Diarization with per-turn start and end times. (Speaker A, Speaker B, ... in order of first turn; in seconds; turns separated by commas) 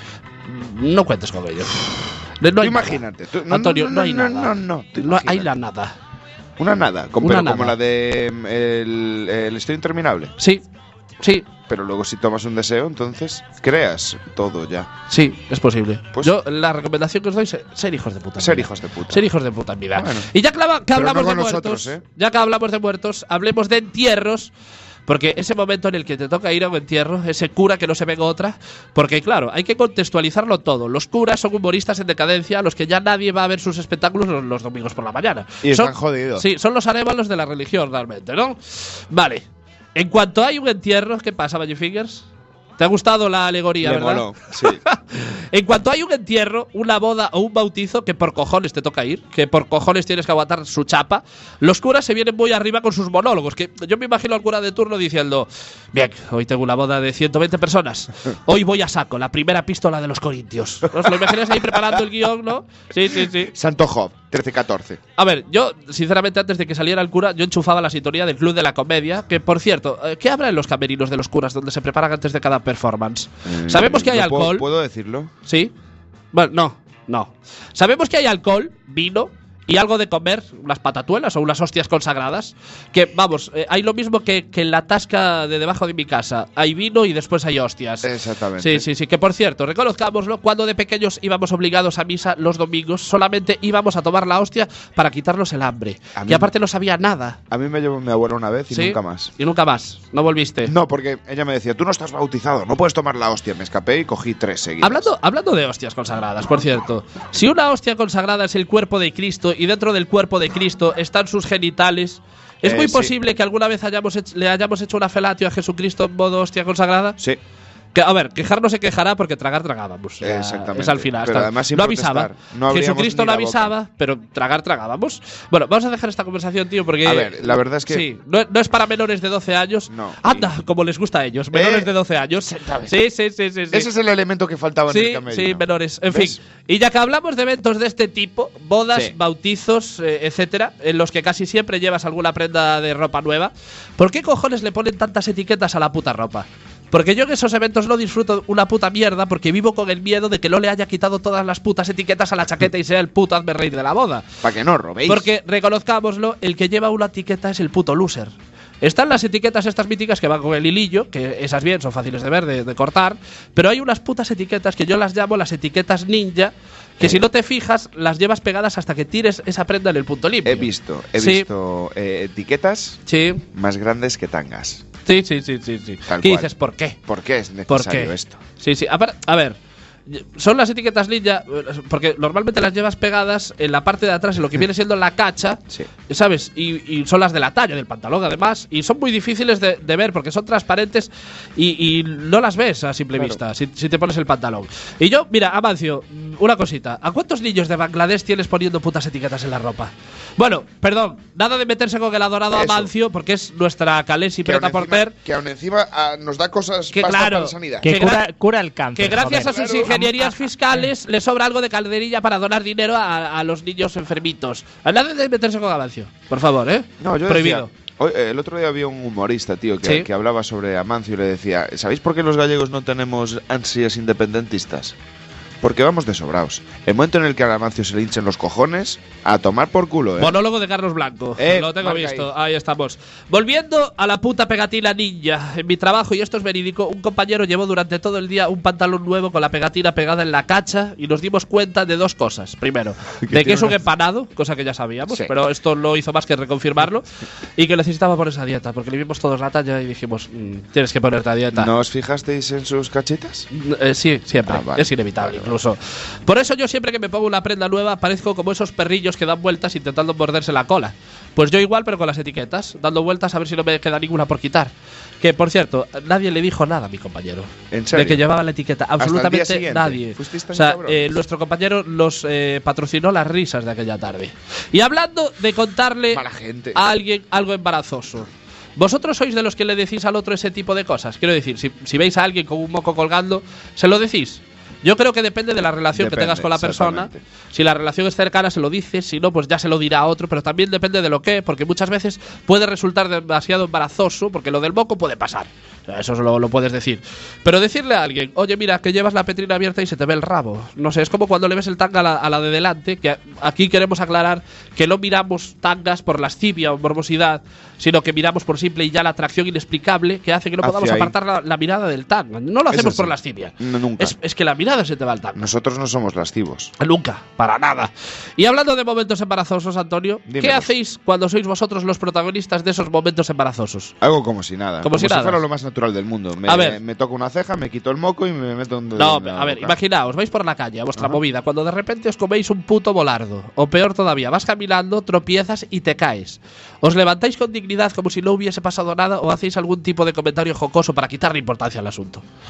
Speaker A: 0.5-6.0, Speaker B: 2.6-5.5, Speaker B: 6.6-10.3, Speaker A: 7.2-7.8, Speaker A: 10.4-10.6, Speaker A: 11.2-11.5, Speaker B: 11.7-14.9, Speaker A: 15.1-24.5, Speaker B: 18.4-19.2, Speaker B: 19.9-20.3, Speaker B: 20.9-22.0, Speaker A: 25.1-42.3, Speaker B: 35.6-36.5, Speaker A: 42.8-63.5, Speaker B: 43.8-44.8, Speaker B: 60.9-62.1, Speaker B: 63.1-65.0, Speaker A: 65.2-74.7, Speaker B: 73.5-75.3, Speaker A: 75.5-75.7, Speaker A: 76.3-97.4, Speaker B: 88.0-88.9, Speaker B: 96.2-96.5, Speaker B: 97.5-99.3, Speaker A: 98.7-100.7, Speaker B: 100.7-105.1, Speaker A: 104.8-117.2, Speaker B: 112.6-113.1, Speaker A: 117.9-133.9, Speaker B: 120.2-123.7, Speaker B: 127.0-128.1, Speaker B: 129.9-130.6, Speaker B: 131.5-131.9, Speaker B: 132.4-133.0, Speaker B: 133.7-136.4, Speaker A: 134.9-154.2, Speaker B: 154.4-155.3, Speaker A: 155.1-158.3, Speaker A: 158.8-171.5, Speaker B: 170.4-173.0, Speaker A: 173.1-173.4, Speaker B: 173.5-174.9, Speaker A: 175.1-177.0, Speaker B: 176.1-176.5, Speaker B: 177.1-178.4, Speaker A: 177.7-179.6, Speaker A: 180.1-205.1, Speaker B: 202.5-202.9, Speaker B: 204.4-208.0, Speaker A: 206.9-208.3, Speaker C: 207.8-210.9, Speaker A: 208.9-217.7, Speaker B: 209.3-209.9, Speaker B: 217.0-225.0, Speaker B: 225.6-230.4, Speaker A: 230.2-247.1, Speaker B: 231.4-232.3, Speaker B: 243.2-243.8, Speaker A: 247.6-251.7, Speaker B: 251.5-253.5, Speaker A: 253.5-315.5, Speaker B: 254.4-255.6, Speaker B: 267.7-268.2, Speaker B: 269.0-271.1, Speaker B: 276.1-276.9, Speaker B: 285.9-287.2, Speaker B: 310.6-311.1, Speaker B: 312.7-314.1, Speaker B: 315.4-316.7, Speaker A: 316.8-323.9, Speaker B: 320.3-320.7, Speaker B: 324.0-329.8, Speaker A: 324.8-325.4, Speaker A: 326.5-326.8, Speaker A: 329.0-342.2